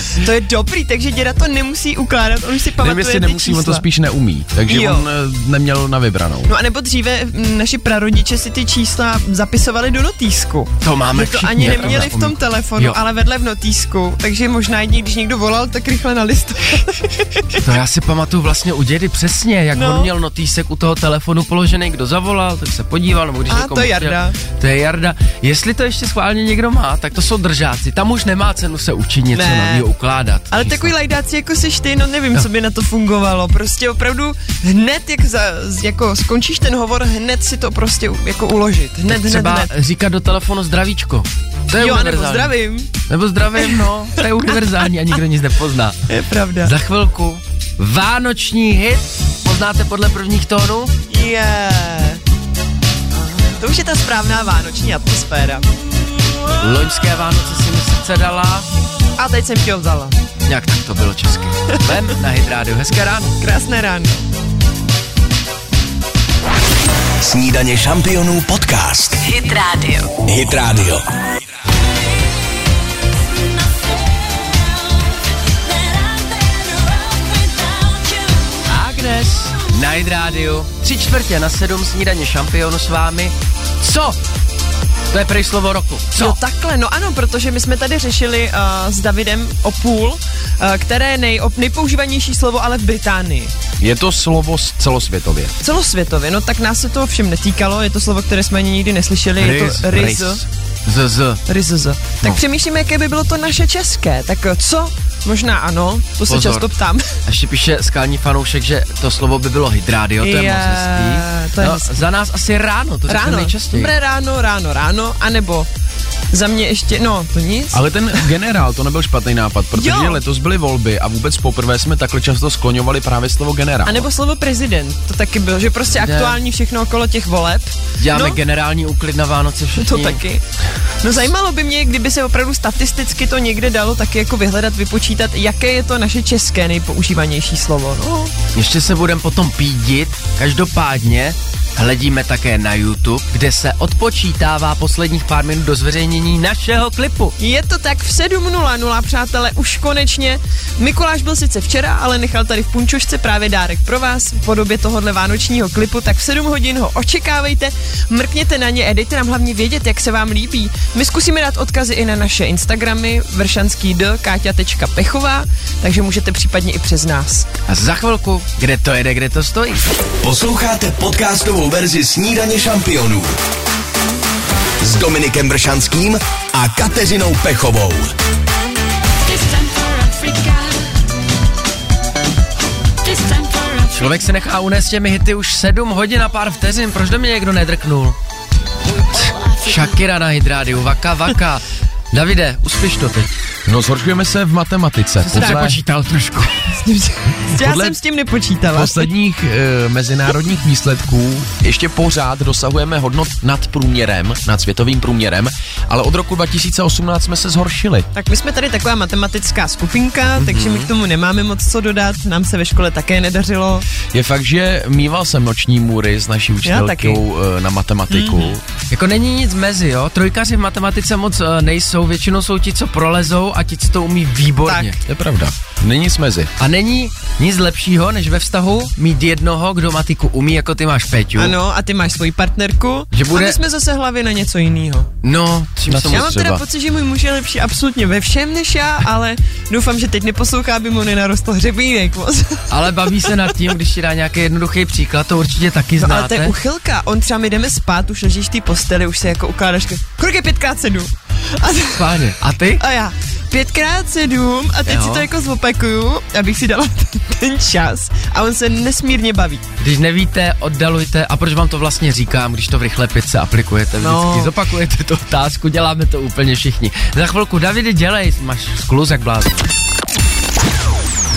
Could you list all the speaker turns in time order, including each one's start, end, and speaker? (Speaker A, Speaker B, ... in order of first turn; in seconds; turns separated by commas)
Speaker A: 0.2-3.9, Speaker B: 2.8-6.5, Speaker A: 4.7-5.1, Speaker A: 6.5-17.6, Speaker C: 10.8-13.0, Speaker C: 17.6-30.9, Speaker A: 19.7-20.1, Speaker A: 23.5-24.4, Speaker A: 29.3-29.9, Speaker A: 30.5-39.7, Speaker C: 39.1-42.5, Speaker A: 41.8-42.9, Speaker C: 43.1-46.0, Speaker A: 46.1-46.7, Speaker C: 46.6-50.9, Speaker A: 51.1-52.2, Speaker A: 53.6-56.6, Speaker C: 56.6-58.7, Speaker A: 59.2-60.2, Speaker C: 60.5-63.4, Speaker A: 63.4-64.2, Speaker D: 67.2-69.2, Speaker E: 69.2-70.2, Speaker D: 70.2-71.0, Speaker E: 73.3-78.6, Speaker C: 78.7-84.2, Speaker C: 85.1-86.4, Speaker A: 86.2-93.5, Speaker B: 93.8-95.5, Speaker A: 95.6-100.4, Speaker C: 99.4-100.2, Speaker B: 99.5-100.4, Speaker C: 100.9-101.4, Speaker A: 101.5-107.1, Speaker C: 106.3-106.7, Speaker C: 107.2-113.9, Speaker A: 110.2-112.0, Speaker A: 113.1-115.7, Speaker A: 116.3-117.8, Speaker B: 117.7-124.1, Speaker A: 119.8-120.2, Speaker A: 123.8-128.4, Speaker C: 126.0-126.4, Speaker C: 128.0-130.2, Speaker A: 129.8-130.4, Speaker A: 131.0-138.3, Speaker C: 138.6-147.4, Speaker A: 147.4-167.5, Speaker C: 167.7-169.9, Speaker D: 170.2-173.4, Speaker D: 174.8-178.1, Speaker E: 179.2-180.9, Speaker E: 183.0-184.2, Speaker C: 183.9-188.2, Speaker E: 189.0-189.9, Speaker C: 189.6-193.3, Speaker B: 193.7-195.8, Speaker C: 195.2-196.6, Speaker A: 195.4-195.7, Speaker A: 196.7-199.1, Speaker B: 197.5-198.0, Speaker B: 198.7-208.1, Speaker A: 208.1-213.9, Speaker C: 210.5-210.8, Speaker B: 214.1-218.6, Speaker A: 216.6-217.2, Speaker A: 218.1-218.5, Speaker C: 218.9-225.0, Speaker A: 224.6-225.0, Speaker B: 225.1-226.5, Speaker C: 226.6-231.6, Speaker A: 231.4-235.1, Speaker C: 233.1-233.6, Speaker C: 235.2-236.3, Speaker B: 235.9-236.6, Speaker A: 236.1-242.7, Speaker C: 242.7-246.6, Speaker A: 246.0-252.1, Speaker C: 251.9-252.8, Speaker A: 252.8-259.6, Speaker C: 254.9-255.3, Speaker C: 259.8-269.7, Speaker A: 264.0-264.6